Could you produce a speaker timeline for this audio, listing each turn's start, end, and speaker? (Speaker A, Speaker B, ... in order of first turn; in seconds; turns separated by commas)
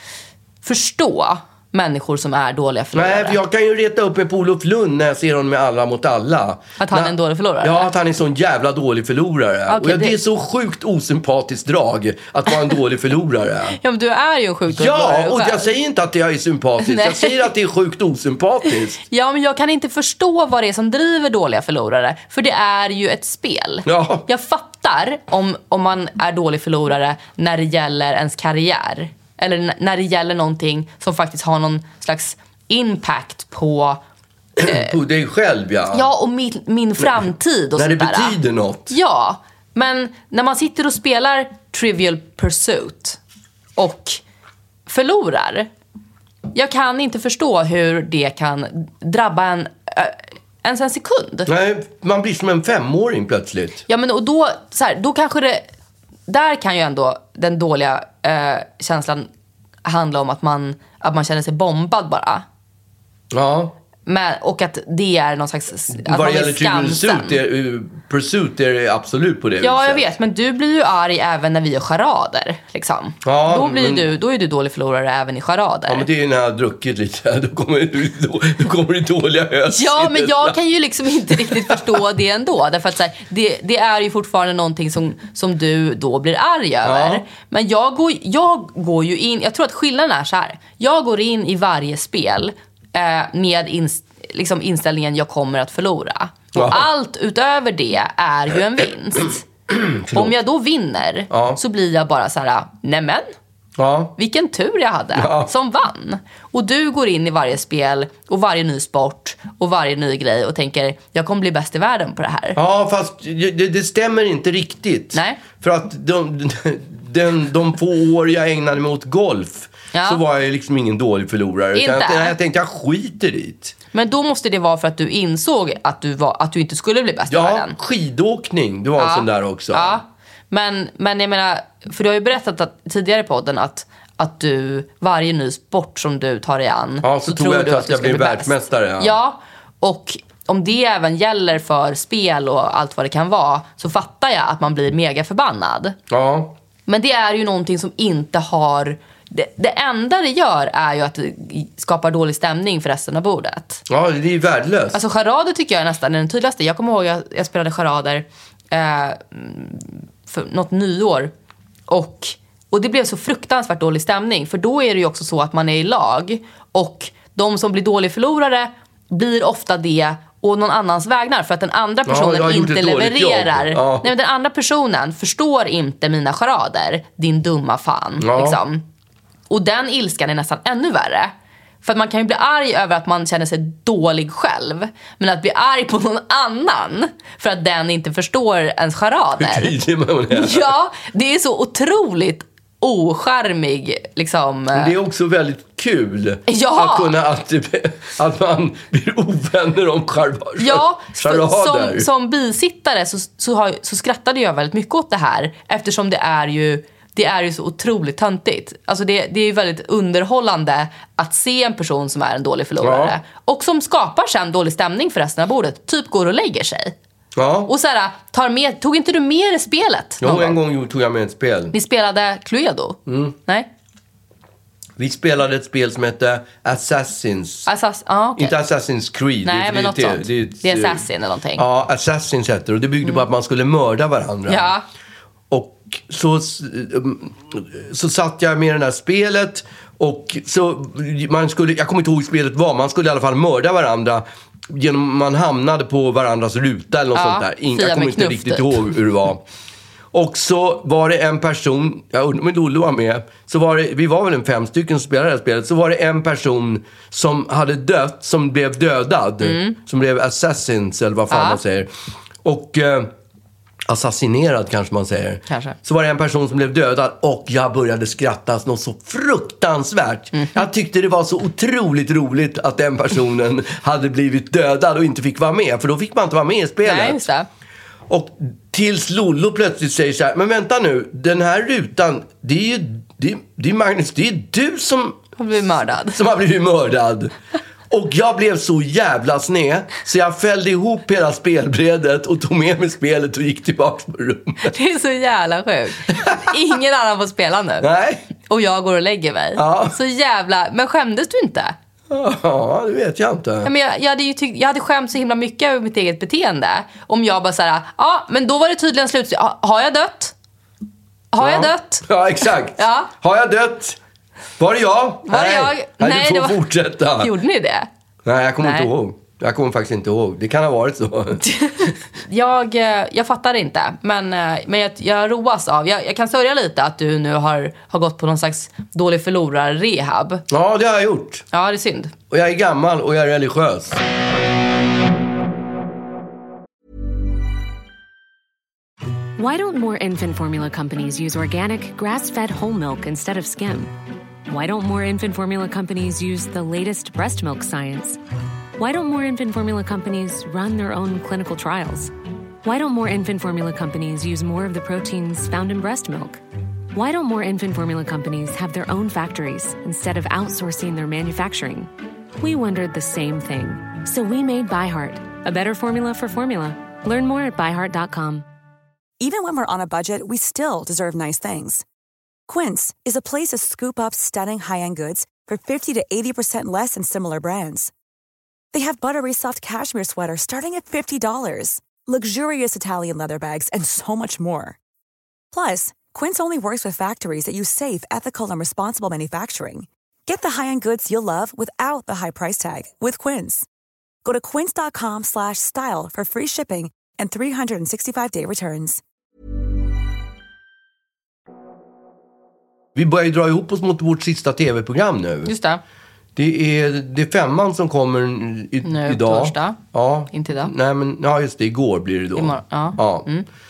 Speaker A: 0.6-3.4, Speaker B: 2.9-13.8, Speaker A: 6.8-7.9, Speaker A: 9.7-10.2, Speaker A: 13.8-15.7, Speaker B: 14.7-19.0, Speaker A: 16.8-17.5, Speaker A: 19.0-34.0, Speaker B: 23.9-24.3, Speaker B: 34.6-36.1, Speaker A: 34.6-34.9, Speaker A: 35.9-43.2, Speaker B: 37.8-39.0, Speaker A: 43.8-44.2, Speaker A: 44.9-45.7, Speaker A: 46.5-51.5, Speaker B: 51.5-53.8, Speaker A: 53.9-55.6, Speaker A: 56.3-59.3, Speaker A: 59.9-62.4, Speaker B: 63.3-63.8, Speaker A: 64.1-67.4, Speaker B: 65.9-70.1, Speaker A: 69.6-76.1, Speaker B: 73.2-74.1, Speaker B: 75.9-80.6, Speaker A: 79.7-99.5, Speaker B: 81.3-82.0, Speaker B: 86.8-87.2, Speaker B: 96.5-96.9, Speaker B: 99.7-100.4, Speaker A: 100.1-103.3, Speaker B: 101.3-101.6, Speaker B: 103.8-104.2, Speaker A: 104.2-112.6, Speaker B: 105.2-105.5, Speaker B: 112.5-123.8, Speaker A: 115.1-115.4, Speaker A: 119.9-120.2, Speaker A: 121.7-122.3, Speaker A: 123.9-127.8, Speaker B: 127.3-130.0, Speaker A: 129.0-146.0, Speaker B: 137.0-139.2, Speaker B: 146.1-146.6, Speaker A: 146.9-153.8, Speaker B: 153.9-155.0, Speaker A: 154.9-161.3, Speaker A: 161.9-178.8, Speaker B: 172.1-174.1, Speaker B: 178.2-178.6, Speaker A: 179.5-181.3, Speaker A: 181.8-189.8, Speaker B: 189.4-190.7, Speaker A: 190.3-194.9, Speaker B: 194.7-202.1, Speaker A: 196.5-197.2, Speaker A: 200.6-216.9, Speaker B: 212.8-213.2, Speaker B: 217.3-217.7, Speaker A: 217.7-220.6, Speaker B: 220.2-221.7, Speaker A: 221.7-223.7, Speaker B: 223.1-223.4, Speaker B: 225.0-227.7, Speaker A: 227.7-228.6, Speaker B: 228.4-231.0, Speaker A: 229.4-231.7, Speaker B: 231.6-234.7, Speaker A: 234.5-234.8, Speaker B: 235.5-249.4, Speaker A: 247.2-248.9, Speaker B: 250.1-261.9, Speaker A: 259.4-259.8, Speaker A: 261.3-261.6, Speaker B: 262.4-263.1, Speaker B: 263.9-277.3, Speaker A: 265.5-265.8, Speaker A: 270.3-270.7, Speaker A: 276.8-277.5, Speaker B: 278.1-285.3, Speaker A: 285.4-286.2, Speaker B: 286.1-287.4, Speaker B: 287.9-294.7, Speaker A: 294.6-297.9, Speaker B: 296.1-296.6, Speaker B: 297.8-298.2, Speaker A: 298.5-301.8, Speaker B: 299.6-300.0, Speaker B: 302.1-303.7, Speaker A: 303.6-310.3, Speaker A: 311.3-312.1, Speaker B: 311.4-314.0, Speaker A: 312.7-313.1, Speaker B: 314.6-317.3, Speaker A: 315.3-316.6, Speaker A: 317.2-317.9, Speaker B: 318.2-321.9, Speaker A: 318.6-318.9, Speaker A: 321.5-330.4, Speaker B: 330.5-331.4, Speaker A: 331.5-332.1, Speaker B: 332.3-334.0, Speaker C: 339.4-343.9, Speaker C: 344.5-348.2, Speaker C: 348.8-352.1, Speaker C: 352.6-356.4, Speaker C: 356.9-368.5, Speaker D: 369.2-371.9, Speaker D: 372.5-377.9, Speaker D: 378.7-384.8, Speaker D: 385.5-393.7, Speaker D: 394.2-399.0, Speaker B: 402.9-405.5, Speaker A: 405.5-405.8, Speaker B: 406.4-413.3, Speaker A: 408.8-409.8, Speaker A: 410.3-410.7, Speaker A: 412.4-413.5